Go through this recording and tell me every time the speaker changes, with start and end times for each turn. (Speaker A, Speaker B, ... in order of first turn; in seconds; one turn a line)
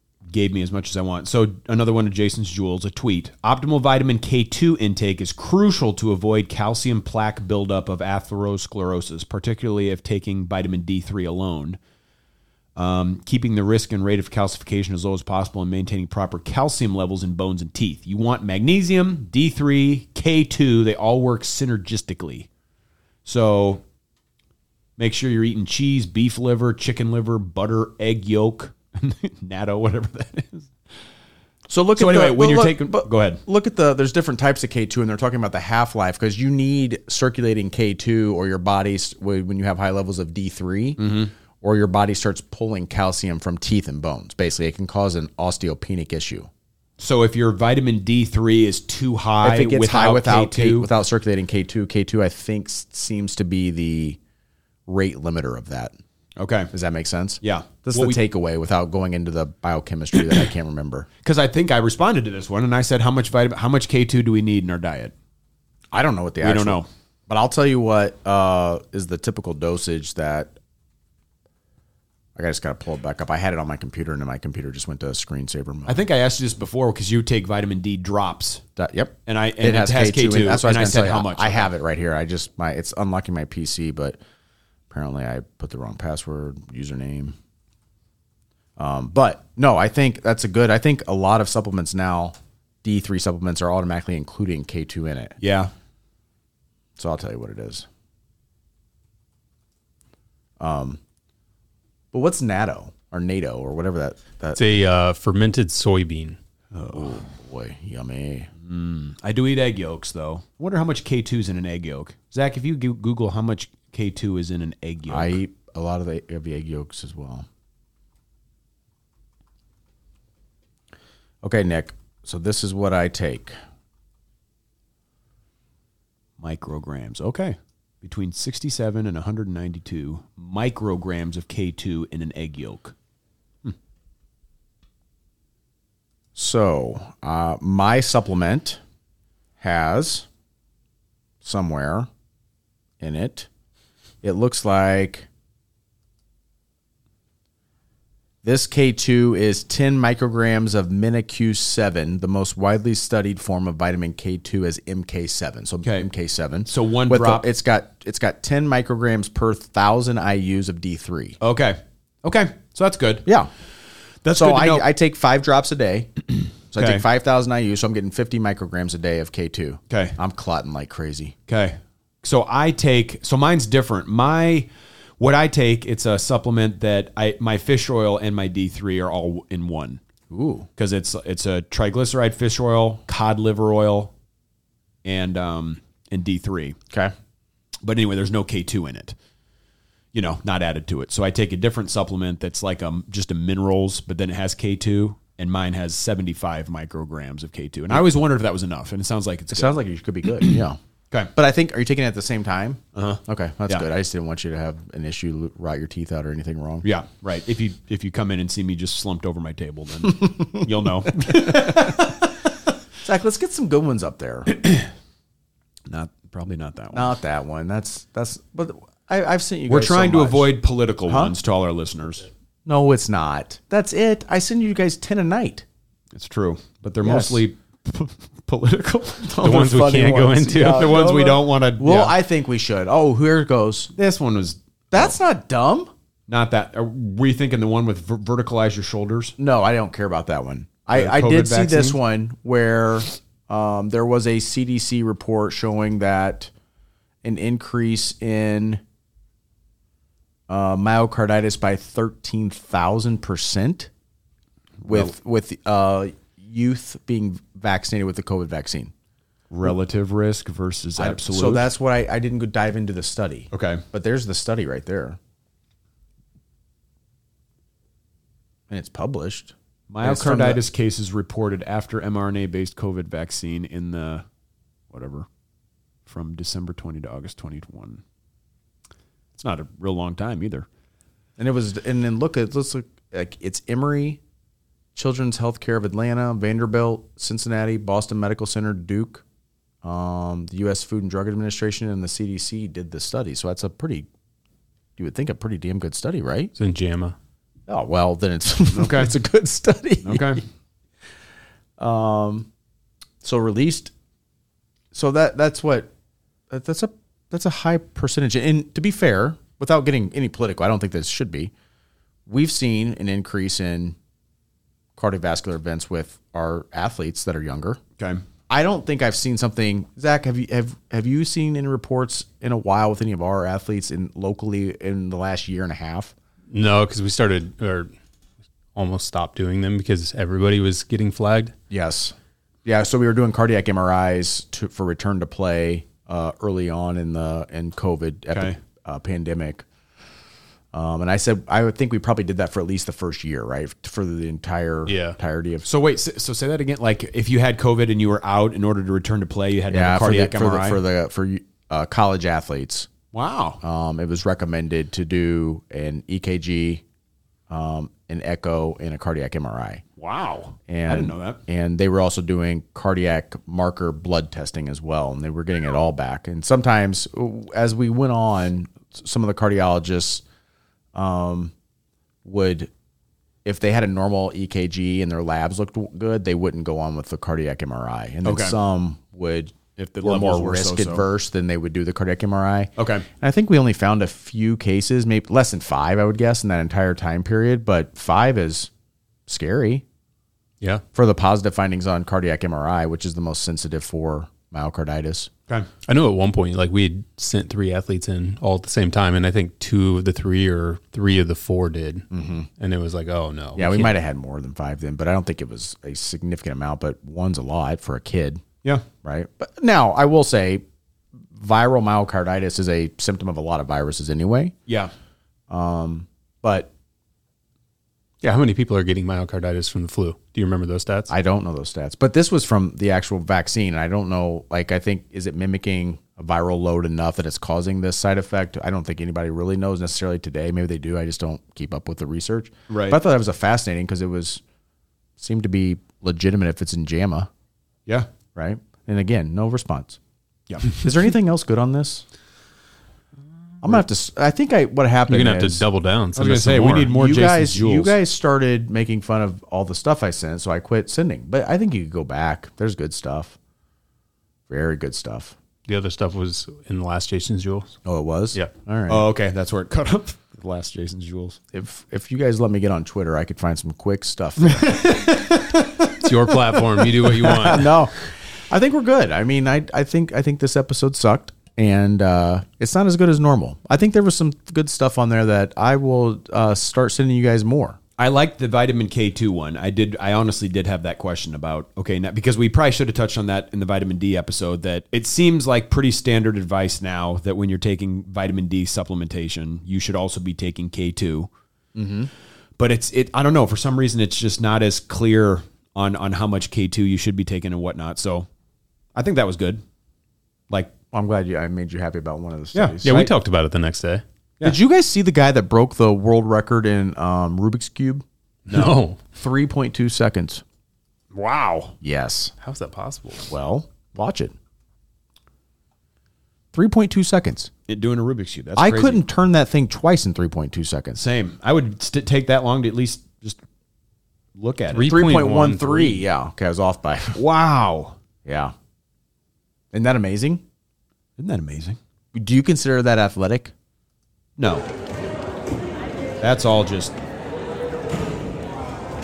Speaker A: 0.3-11.8
Speaker A: 12.8-22.5
Speaker A: 23.2-23.8
Speaker A: 25.0-30.7
Speaker B: 31.7-41.0
Speaker A: 32.0-33.4
Speaker A: 41.0-41.3
Speaker B: 41.6-46.5
Speaker A: 47.0-50.9
Speaker B: 49.4-54.2
Speaker B: 54.9-56.0
Speaker A: 56.4-56.7
Speaker B: 56.7-61.1
Speaker A: 57.4-58.2
Speaker A: 61.2-65.1
Speaker B: 65.9-70.5
Speaker A: 66.4-66.9
Speaker B: 72.3-76.0
Speaker A: 75.9-78.6
Speaker B: 78.8-84.2
Speaker A: 79.3-81.7
Speaker B: 84.9-87.4
Speaker B: 88.8-95.4
Speaker A: 95.4-95.7
Speaker B: 97.0-97.9
Speaker B: 100.6-101.0
Speaker B: 102.1-104.6
Speaker C: 104.6-106.4
Speaker A: 106.7-107.2
Speaker B: 106.9-108.5
Speaker A: 108.6-115.4
Speaker B: 115.1-117.5
Speaker B: 121.4-123.6
Speaker A: 126.4-132.9
Speaker B: 136.3-138.8
Speaker B: 139.6-140.3
Speaker B: 141.4-142.1
Speaker B: 143.0-143.5
Speaker B: 144.2-145.3
Speaker B: 148.4-161.4
Speaker A: 156.7-157.5
Speaker A: 161.4-163.3
Speaker B: 163.2-163.5
Speaker A: 164.2-164.9
Speaker B: 164.3-171.3
Speaker A: 166.8-167.1
Speaker A: 169.9-170.2
Speaker A: 171.5-180.0
Speaker B: 180.3-180.7
Speaker A: 180.8-184.1
Speaker A: 185.0-186.8
Speaker A: 187.8-189.2
Speaker A: 190.1-199.8
Speaker B: 199.5-200.8
Speaker B: 201.3-206.9
Speaker A: 202.9-203.8
Speaker A: 206.8-212.5
Speaker B: 211.3-212.0
Speaker B: 213.0-214.5
Speaker A: 214.5-214.9
Speaker A: 215.9-217.1
Speaker B: 216.9-220.5
Speaker A: 219.7-222.3
Speaker B: 221.1-221.3
Speaker B: 222.7-225.7
Speaker A: 226.1-229.4
Speaker B: 227.0-227.4
Speaker B: 229.3-233.9
Speaker C: 229.4-230.9
Speaker A: 230.6-232.2
Speaker A: 233.9-235.2
Speaker B: 234.9-235.9
Speaker A: 236.3-239.4
Speaker B: 239.4-246.5
Speaker A: 240.9-242.0
Speaker B: 247.2-248.8
Speaker B: 250.5-253.9
Speaker A: 254.8-255.1
Speaker B: 254.8-258.9
Speaker A: 259.5-261.7
Speaker B: 261.0-265.2
Speaker A: 263.5-263.8
Speaker B: 268.7-270.6
Speaker A: 269.9-274.3
Speaker A: 274.9-275.3
Speaker A: 276.1-278.0
Speaker A: 279.4-280.7
Speaker B: 281.4-284.2
Speaker B: 284.9-289.2
Speaker B: 289.8-294.1
Speaker B: 295.0-296.5
Speaker C: 296.6-297.1
Speaker B: 297.7-300.4
Speaker A: 298.7-299.1
Speaker A: 300.0-300.4
Speaker B: 301.8-302.5
Speaker B: 303.2-303.9
Speaker B: 304.9-305.9
Speaker B: 306.5-311.5
Speaker B: 312.3-314.0
Speaker B: 315.0-317.8
Speaker B: 318.5-326.1
Speaker C: 326.5-327.9
Speaker C: 328.7-331.6
Speaker B: 331.7-339.6
Speaker A: 338.3-338.6
Speaker B: 340.7-345.7
Speaker C: 344.9-345.2
Speaker A: 345.6-350.8
Speaker B: 349.7-352.9
Speaker A: 353.1-353.6
Speaker B: 353.6-356.8
Speaker B: 357.5-359.8
Speaker A: 360.0-361.4
Speaker B: 360.7-370.2
Speaker B: 370.9-371.5
Speaker B: 372.2-372.7
Speaker B: 373.4-388.7
Speaker A: 378.2-378.6
Speaker A: 380.0-381.1
Speaker A: 382.8-383.1
Speaker B: 389.3-389.8
Speaker B: 390.9-395.3
Speaker C: 395.9-402.1
Speaker B: 402.1-402.5
Speaker C: 402.6-403.9
Speaker B: 403.6-408.4
Speaker B: 409.0-410.6
Speaker B: 411.3-414.6
Speaker B: 415.5-416.7
Speaker C: 418.2-421.1
Speaker B: 421.1-434.4
Speaker A: 432.7-433.0
Speaker B: 435.2-437.3
Speaker B: 438.4-440.0
Speaker A: 440.5-440.8
Speaker B: 440.7-442.1
Speaker B: 443.6-445.6
Speaker C: 445.1-446.9
Speaker A: 446.1-448.0
Speaker B: 446.9-453.4
Speaker B: 454.5-455.4
Speaker C: 455.7-457.8
Speaker B: 457.9-459.1
Speaker A: 458.9-461.4
Speaker B: 461.5-465.1
Speaker A: 464.6-465.0
Speaker C: 465.8-467.8
Speaker B: 467.0-468.0
Speaker B: 468.5-477.8
Speaker A: 478.0-491.3
Speaker B: 491.8-492.1
Speaker A: 492.6-498.3
Speaker A: 498.9-499.6
Speaker B: 500.9-502.9
Speaker A: 502.5-503.1
Speaker C: 502.8-504.0
Speaker B: 504.4-508.1
Speaker A: 508.5-508.8
Speaker C: 508.5-509.0
Speaker B: 509.1-510.4
Speaker A: 511.1-511.8
Speaker B: 511.8-512.3
Speaker C: 512.4-513.3
Speaker B: 513.3-514.4
Speaker B: 516.5-517.5
Speaker A: 517.7-519.0
Speaker B: 518.6-521.0
Speaker A: 521.0-523.4
Speaker A: 524.4-525.1
Speaker C: 524.7-526.0
Speaker B: 524.9-527.2
Speaker A: 527.1-528.0
Speaker B: 528.2-528.5
Speaker B: 529.7-530.4
Speaker A: 531.2-531.8
Speaker B: 532.1-533.5
Speaker A: 534.4-534.7
Speaker A: 536.2-537.0